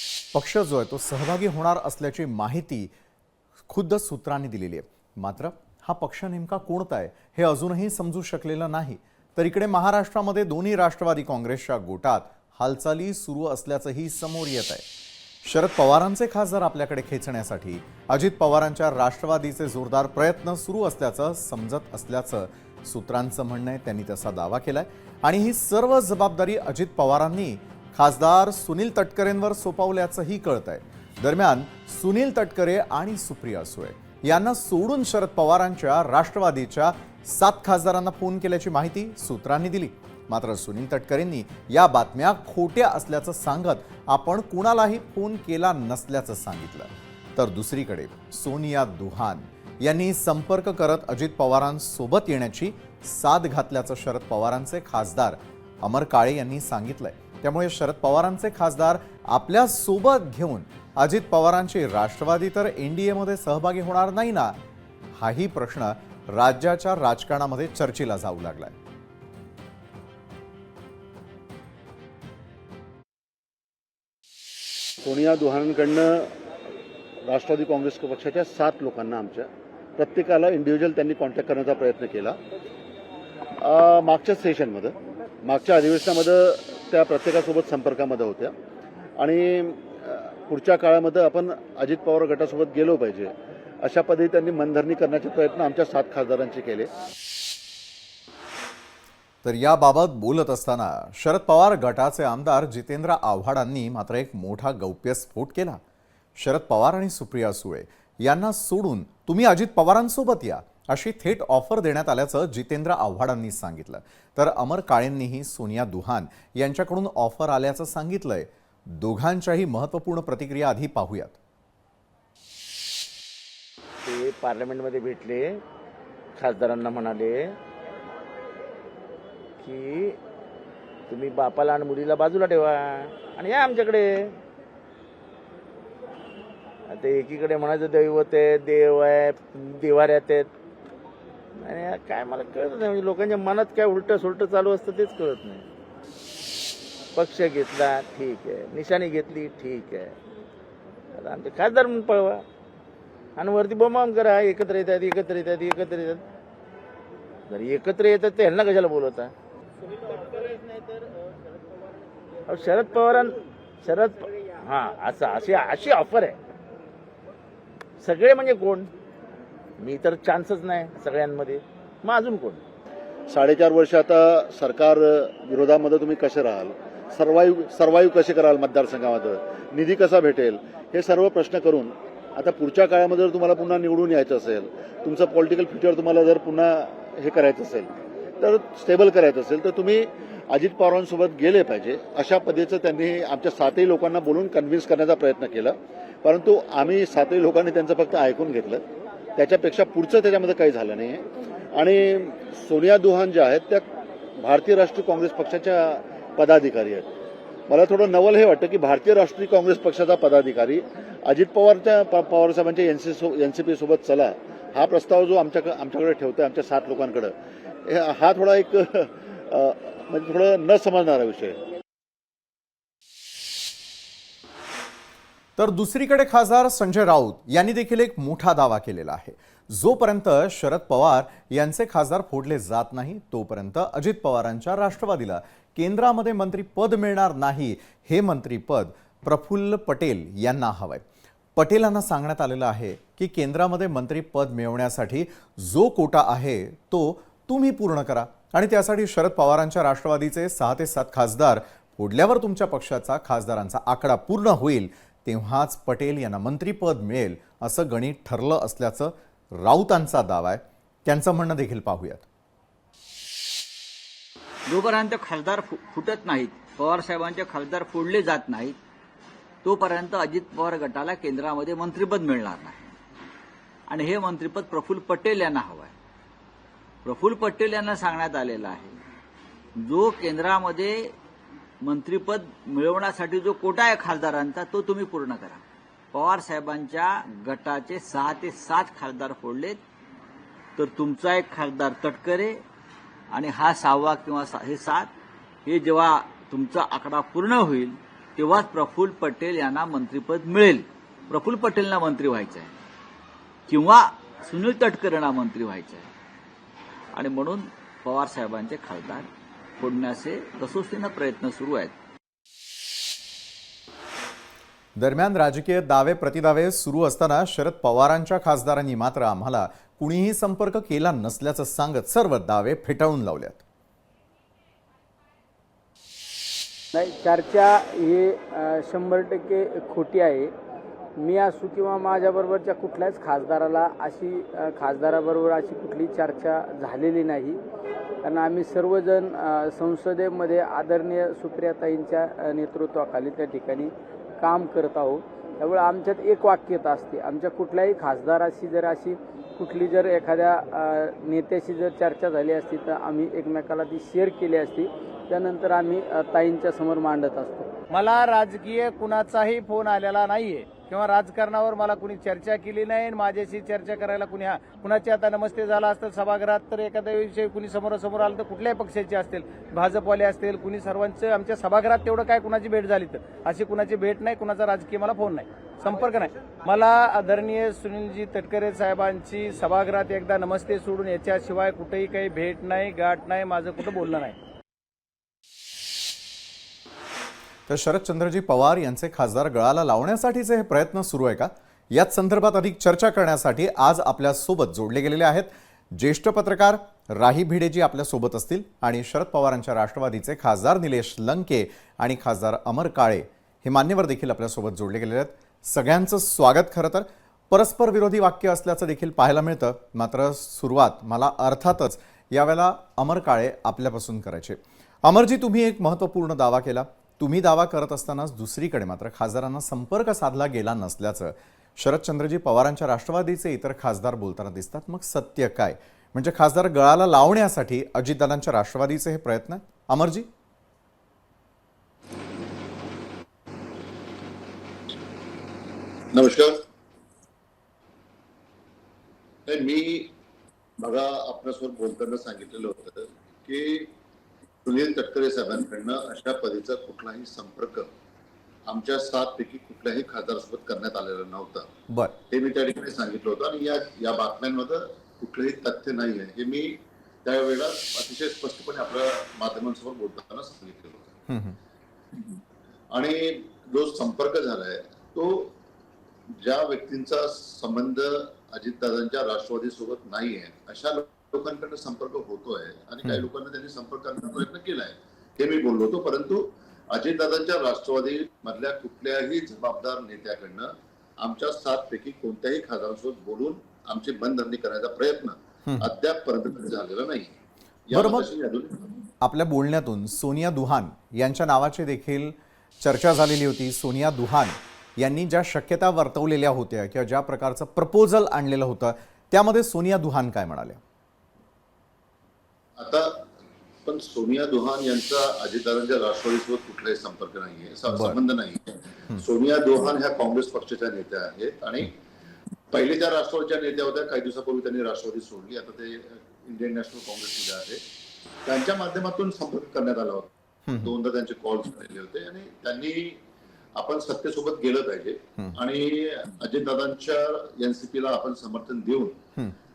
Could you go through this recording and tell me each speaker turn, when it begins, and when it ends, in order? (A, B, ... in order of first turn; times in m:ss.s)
0:00.3-0:02.9 A
0:03.7-0:14.8 A
0:15.4-1:04.6 A
1:05.1-1:08.8 A
1:15.0-1:16.4 B
1:17.3-1:22.4 B
1:23.6-1:28.6 B
1:29.2-1:36.9 B
1:39.4-1:45.8 A
1:46.4-2:01.4 A
2:04.0-2:05.6 C
2:06.4-2:07.5 C
2:09.6-2:10.2 C
2:11.1-2:14.3 C
2:16.9-2:20.5 C
2:21.6-2:25.7 C
2:27.2-2:30.2 C
2:31.2-2:32.4 C
2:33.4-2:36.2 C
2:37.5-2:39.3 C
2:40.1-2:40.6 C
2:42.5-2:46.4 C
2:48.0-2:48.9 C
2:49.8-2:52.6 C
2:53.3-3:27.1 B
3:27.7-3:41.6 B
3:45.6-4:01.0 A
4:01.6-4:22.2 A
4:24.7-4:28.8 D
4:29.6-4:32.9 D
4:33.9-4:35.9 D
4:37.0-4:39.0 D
4:39.8-4:41.1 D
4:41.8-4:45.6 D
4:46.1-4:49.8 D
4:50.8-4:52.6 D
4:53.3-4:55.1 D
4:55.7-5:02.7 D
5:03.7-5:06.1 D
5:07.1-5:09.3 D
5:09.8-5:11.9 D
5:15.0-5:23.6 A
5:26.9-5:30.5 E
5:31.2-5:37.6 E
5:38.2-5:57.7 E
5:57.9-6:24.4 F
6:27.7-7:10.3 A
7:16.1-7:16.6 G
7:19.5-7:20.1 G
7:20.8-7:23.9 G
7:24.6-7:27.9 G
7:28.7-7:31.7 G
7:31.9-7:32.2 A
7:32.3-7:41.2 G
7:41.3-7:41.6 A
7:42.9-7:45.6 G
7:46.4-8:07.4 G
8:07.9-8:09.0 G
8:07.9-8:08.3 A
8:09.2-8:20.8 A
8:22.8-8:23.3 G
8:23.8-8:32.0 G
8:27.9-8:28.2 A
8:32.7-8:37.8 G
8:38.5-8:43.2 G
8:40.7-8:40.9 A
8:43.8-8:49.2 G